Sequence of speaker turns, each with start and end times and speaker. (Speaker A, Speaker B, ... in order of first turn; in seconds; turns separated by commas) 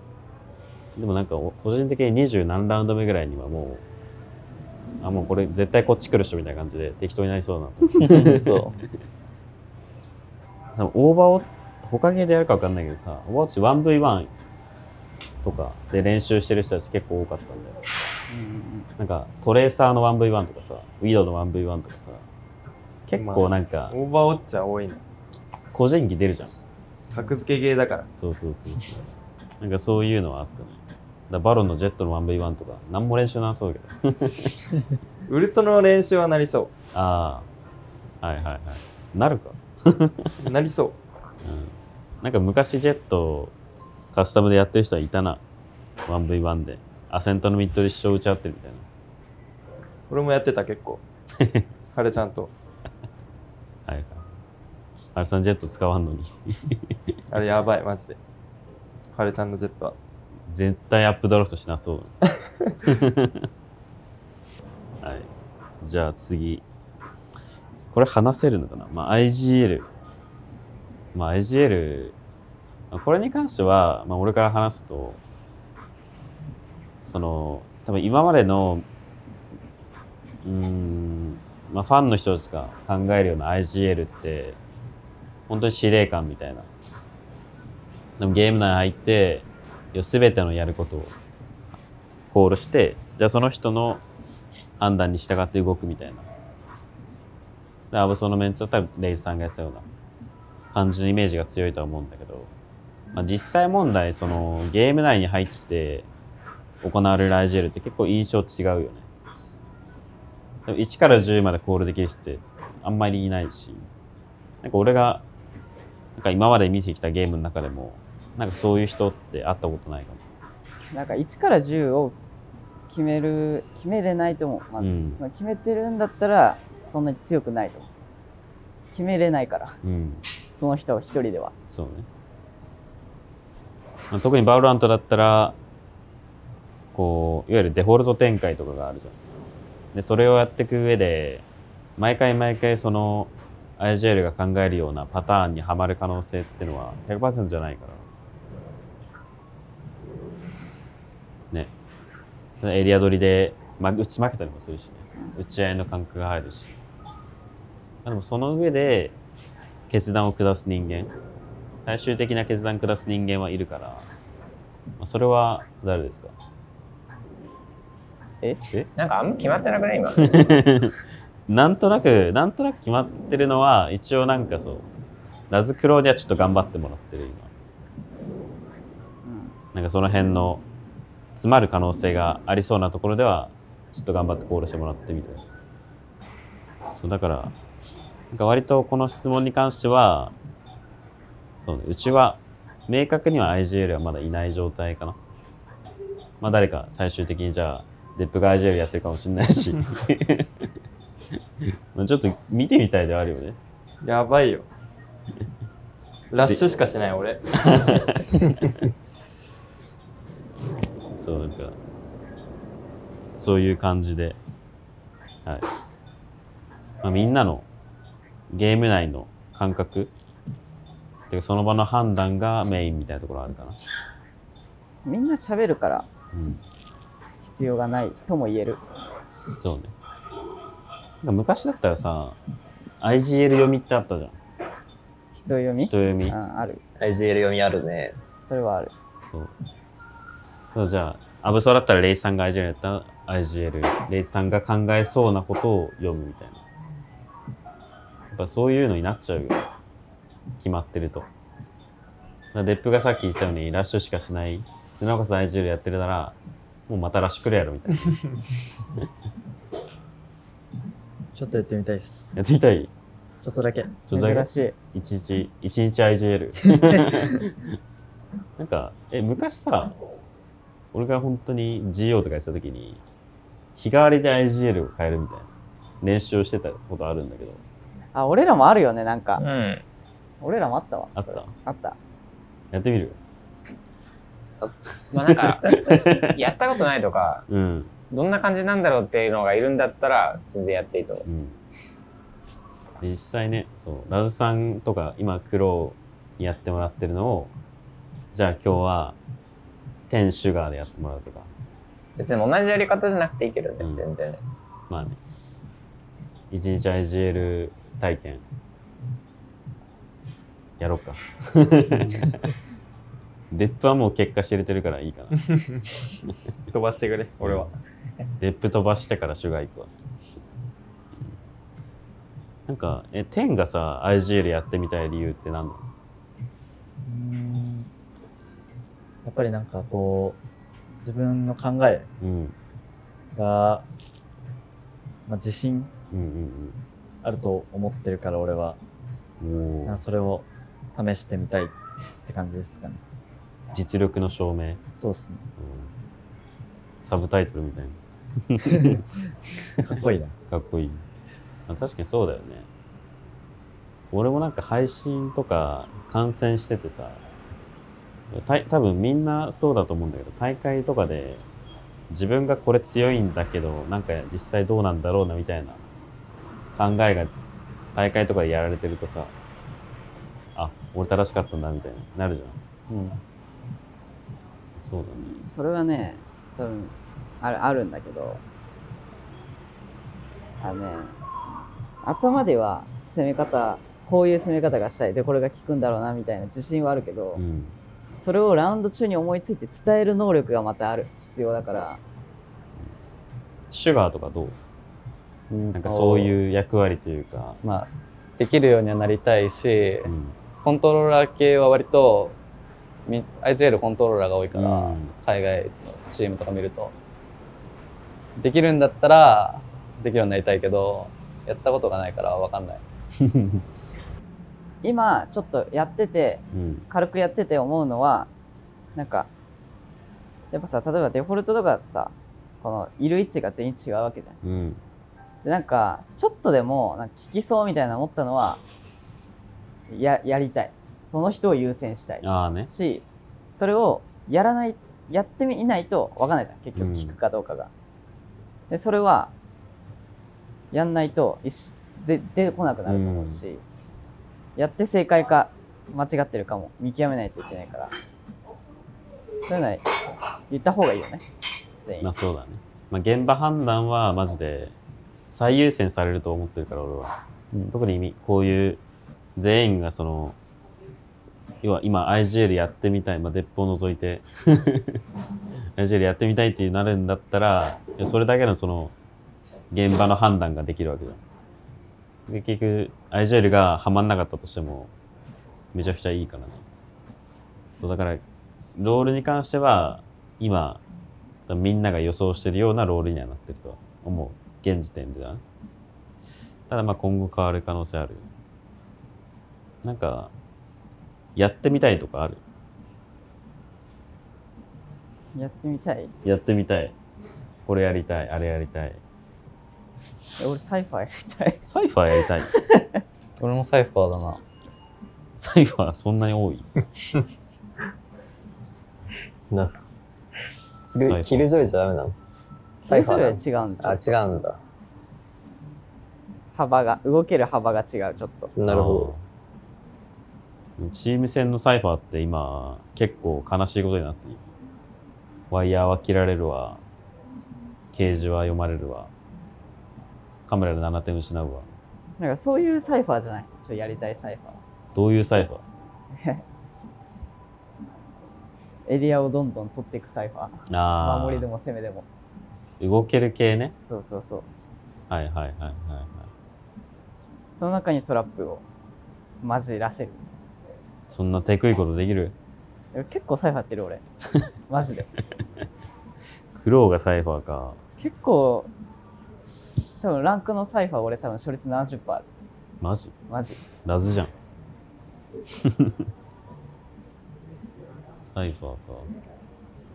Speaker A: 0.9-3.8, Speaker A: 5.0-8.6, Speaker B: 8.0-8.8, Speaker A: 10.7-14.3, Speaker A: 15.4-17.8, Speaker C: 18.3-18.9, Speaker A: 19.0-22.2, Speaker A: 23.1-23.9, Speaker D: 23.1-25.0, Speaker A: 25.7-26.5, Speaker D: 27.1-28.1, Speaker A: 28.2-29.1, Speaker A: 29.6-30.8, Speaker A: 31.3-34.7, Speaker D: 35.3-36.7, Speaker A: 36.9-37.5, Speaker A: 38.2-40.3, Speaker D: 40.4-41.0, Speaker A: 41.4-43.5, Speaker A: 44.1-45.4, Speaker A: 46.1-48.8, Speaker D: 50.1-51.0, Speaker A: 51.4-51.7, Speaker D: 51.9-52.5, Speaker A: 53.9-54.2, Speaker A: 55.1-56.9, Speaker D: 57.3-58.2, Speaker D: 59.1-59.9, Speaker A: 60.5-62.1, Speaker A: 62.8-63.5, Speaker A: 65.0-65.3, Speaker A: 65.8-66.6, Speaker A: 67.9-69.9, Speaker A: 71.1-72.2, Speaker A: 72.9-75.2, Speaker A: 77.0-78.8, Speaker A: 80.4-84.6, Speaker A: 85.5-86.7, Speaker A: 88.2-91.1, Speaker A: 92.3-94.0, Speaker A: 94.8-96.3, Speaker A: 97.9-99.8, Speaker A: 100.7-102.5, Speaker A: 103.1-106.1, Speaker A: 106.8-109.0, Speaker A: 110.7-113.8, Speaker A: 114.6-115.2, Speaker A: 116.2-120.2, Speaker C: 120.9-122.2, Speaker C: 122.9-127.9, Speaker A: 124.8-125.2, Speaker C: 128.9-129.8, Speaker A: 129.8-130.2, Speaker C: 130.6-131.5, Speaker A: 131.7-132.1, Speaker A: 134.1-135.6, Speaker A: 136.9-139.2, Speaker A: 139.9-141.4, Speaker A: 142.0-148.0, Speaker A: 152.6-156.8, Speaker A: 158.0-159.2, Speaker A: 159.9-161.1, Speaker A: 161.8-164.1, Speaker A: 165.0-166.3, Speaker E: 169.0-170.6, Speaker A: 170.2-170.9, Speaker A: 171.5-174.8, Speaker A: 175.5-177.5, Speaker C: 179.2-179.5, Speaker A: 179.7-180.6, Speaker A: 181.3-185.4, Speaker A: 186.9-187.5, Speaker A: 188.3-190.3, Speaker A: 191.6-195.2, Speaker A: 196.4-200.7, Speaker A: 201.6-203.6, Speaker D: 204.0-204.7, Speaker D: 206.3-208.7, Speaker A: 206.4-206.8, Speaker A: 207.6-208.6, Speaker A: 211.2-211.8, Speaker A: 213.4-214.4, Speaker A: 217.0-217.7, Speaker A: 218.5-220.1, Speaker A: 221.3-223.8, Speaker C: 225.0-226.1, Speaker A: 226.3-226.6, Speaker C: 227.4-228.8, Speaker A: 229.6-229.9, Speaker A: 231.2-232.4, Speaker A: 233.0-234.4, Speaker C: 235.3-236.8, Speaker A: 235.8-236.3, Speaker F: 237.0-238.2, Speaker C: 238.4-238.9, Speaker A: 239.2-239.5, Speaker A: 240.7-246.6, Speaker A: 248.3-249.7, Speaker A: 250.6-251.3, Speaker A: 252.5-256.4, Speaker A: 256.9-258.3, Speaker G: 261.3-262.4, Speaker A: 262.4-262.9, Speaker G: 263.4-264.0, Speaker A: 264.1-267.8, Speaker C: 264.1-264.7, Speaker A: 268.6-269.9, Speaker A: 270.9-273.0, Speaker A: 273.8-275.5, Speaker A: 276.0-277.6, Speaker C: 278.1-279.4, Speaker E: 279.4-279.8, Speaker C: 280.4-282.0, Speaker A: 281.1-281.5, Speaker A: 282.7-283.2, Speaker E: 285.1-287.4, Speaker A: 285.2-286.5, Speaker A: 287.5-287.9, Speaker E: 288.1-291.2, Speaker A: 291.2-291.6, Speaker A: 293.0-297.5, Speaker A: 298.3-299.2, Speaker A: 300.1-301.5, Speaker E: 302.1-304.4, Speaker A: 303.8-304.0, Speaker A: 304.9-305.2, Speaker A: 306.5-308.4, Speaker A: 310.8-312.5, Speaker A: 313.5-315.5, Speaker D: 315.4-315.9, Speaker D: 316.7-317.7, Speaker A: 317.4-317.7, Speaker A: 318.4-319.9, Speaker A: 322.7-325.8, Speaker G: 327.0-327.9, Speaker G: 329.2-330.4, Speaker G: 331.0-332.1, Speaker A: 332.2-332.5, Speaker G: 333.3-333.9, Speaker G: 335.3-335.9, Speaker A: 336.1-336.8, Speaker G: 337.2-338.8, Speaker A: 339.4-340.0, Speaker G: 339.8-341.7, Speaker G: 342.2-343.0, Speaker A: 343.7-344.8, Speaker G: 345.0-345.5, Speaker A: 345.6-345.9, Speaker A: 347.0-349.0, Speaker G: 348.7-349.0, Speaker G: 349.8-350.3, Speaker A: 350.5-351.0, Speaker A: 351.7-352.7, Speaker A: 354.1-357.2, Speaker A: 358.3-361.4, Speaker A: 362.1-365.8, Speaker A: 366.8-367.3, Speaker A: 367.9-369.3, Speaker A: 370.6-372.6, Speaker B: 372.9-373.2, Speaker A: 374.8-375.4, Speaker C: 375.0-378.4, Speaker C: 380.6-381.2, Speaker C: 382.0-387.4, Speaker A: 387.4-387.7, Speaker C: 388.2-392.0, Speaker A: 393.7-394.6, Speaker B: 395.5-396.4, Speaker A: 395.7-397.6, Speaker B: 397.6-400.1, Speaker A: 400.0-400.3, Speaker B: 400.6-402.4, Speaker B: 403.1-406.9, Speaker A: 404.5-405.1, Speaker B: 408.4-412.8, Speaker A: 413.2-413.6, Speaker C: 414.8-418.3, Speaker A: 416.5-416.9, Speaker C: 418.9-419.3, Speaker C: 420.5-424.4, Speaker A: 424.4-424.8, Speaker C: 425.4-428.6, Speaker C: 429.9-437.7, Speaker A: 432.2-432.7, Speaker A: 436.8-437.1, Speaker C: 438.7-439.3, Speaker C: 440.7-443.6, Speaker A: 442.9-443.4, Speaker C: 444.6-447.9, Speaker C: 449.5-449.8, Speaker C: 450.5-451.2, Speaker C: 451.8-452.1, Speaker A: 452.0-454.7, Speaker A: 455.3-457.1, Speaker A: 457.7-458.8, Speaker A: 459.4-460.4, Speaker A: 461.6-465.0, Speaker A: 465.8-468.9, Speaker A: 469.7-471.2, Speaker A: 472.3-474.9, Speaker A: 475.7-476.6, Speaker A: 477.8-478.2, Speaker A: 478.8-480.8, Speaker A: 481.5-485.4, Speaker A: 486.7-488.3, Speaker A: 489.8-490.3, Speaker A: 491.4-492.4, Speaker C: 495.3-496.1, Speaker A: 496.2-496.9, Speaker A: 497.6-499.0, Speaker C: 500.4-501.6, Speaker A: 501.6-502.5, Speaker C: 502.5-503.0, Speaker B: 503.4-504.4, Speaker A: 505.4-506.7, Speaker F: 509.5-509.8, Speaker F: 510.9-512.1, Speaker A: 511.0-511.5, Speaker F: 512.8-514.6, Speaker C: 512.9-514.2, Speaker C: 516.5-518.5, Speaker F: 518.5-519.1, Speaker A: 518.7-519.2, Speaker A: 520.8-524.5, Speaker A: 525.5-526.8, Speaker A: 527.9-529.1, Speaker A: 530.5-531.7, Speaker C: 532.2-534.6, Speaker A: 534.9-535.6, Speaker C: 536.1-536.4, Speaker C: 538.9-542.0, Speaker A: 540.7-541.5, Speaker A: 542.8-543.7, Speaker C: 543.9-544.5, Speaker A: 545.1-546.3, Speaker C: 547.5-548.6, Speaker C: 549.4-550.2, Speaker A: 551.1-552.3, Speaker C: 552.9-554.0, Speaker C: 554.7-555.1, Speaker A: 556.5-557.8, Speaker C: 558.0-558.7, Speaker C: 560.0-562.2, Speaker A: 562.8-563.1, Speaker C: 563.3-563.6, Speaker A: 563.8-564.3, Speaker A: 565.6-566.0, Speaker A: 568.2-569.1